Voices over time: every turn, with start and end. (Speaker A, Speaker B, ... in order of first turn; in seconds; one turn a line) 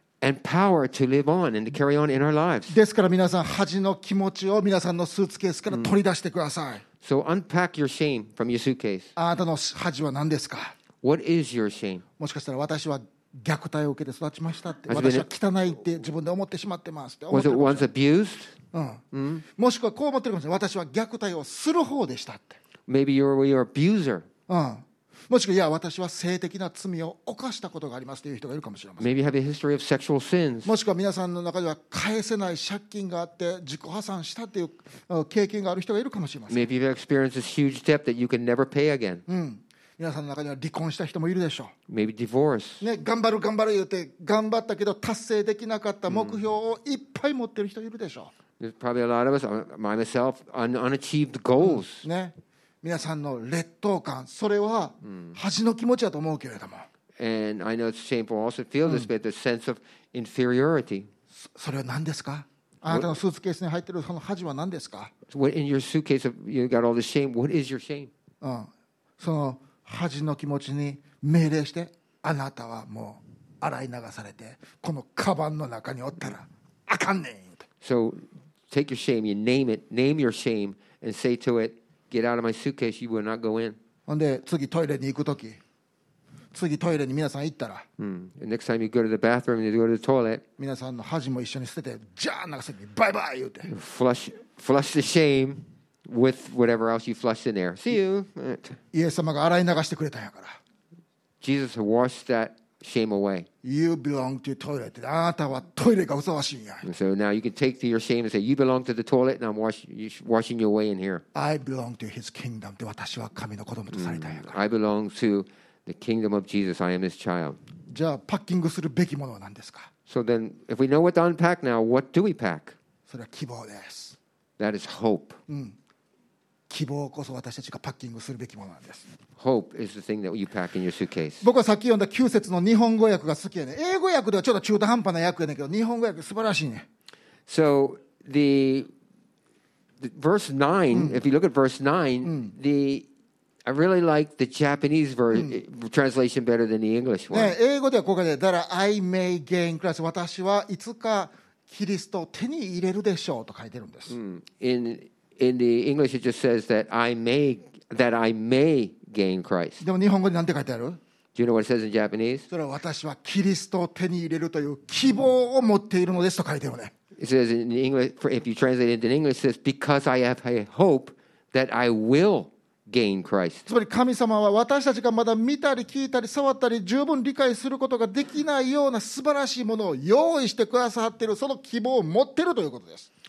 Speaker A: 0.2-2.8
Speaker B: 2.7-6.8
Speaker A: 7.0-9.1
Speaker B: 9.2-10.7
Speaker A: 11.0-12.0
Speaker B: 12.2-17.9
Speaker A: 14.9-15.3
Speaker A: 17.3-18.5
Speaker B: 18.7-19.0
Speaker A: 19.1-19.4
Speaker B: 19.6-22.6
Speaker A: 22.9-24.2
Speaker B: 24.5-29.1
Speaker A: 29.0-30.7
Speaker B: 30.6-36.7
Speaker A: 36.5-39.2
Speaker B: 39.3-41.7
Speaker A: 41.9-42.8
Speaker B: 42.8-48.3
Speaker A: 46.1-46.4
Speaker A: 48.6-52.0
Speaker B: 51.6-56.9
Speaker A: 57.2-61.1
Speaker B: 61.3-65.1
Speaker A: 65.3-68.1
Speaker B: 68.4-68.7
Speaker B: 69.2-77.6
Speaker A: 77.8-83.8
Speaker B: 84.1-85.6
Speaker B: 86.5-87.8
Speaker A: 88.0-90.4
Speaker B: 90.6-93.7
Speaker A: 93.7-98.8
Speaker B: 98.9-100.6
Speaker A: 101.4-103.5
Speaker B: 103.6-106.8
Speaker A: 106.8-111.2
Speaker B: 111.3-114.5
Speaker A: 113.9-117.6
Speaker B: 117.9-119.9
Speaker A: 120.1-122.8
Speaker B: 123.1-124.2
Speaker A: 124.6-125.4
Speaker B: 125.5-125.8
Speaker B: 126.7-129.1
Speaker A: 129.4-131.4
Speaker B: 131.4-136.8
Speaker A: 137.5-138.9
Speaker A: 140.0-143.1
Speaker B: 140.9-141.2
Speaker B: 142.2-142.5
Speaker A: 143.7-147.6
Speaker B: 145.3-145.6
Speaker B: 147.3-154.1
Speaker A: 154.1-159.8
Speaker B: 159.8-161.0
Speaker A: 161.3-162.5
Speaker B: 162.5-166.9
Speaker A: 167.2-173.7
Speaker B: 173.7-183.1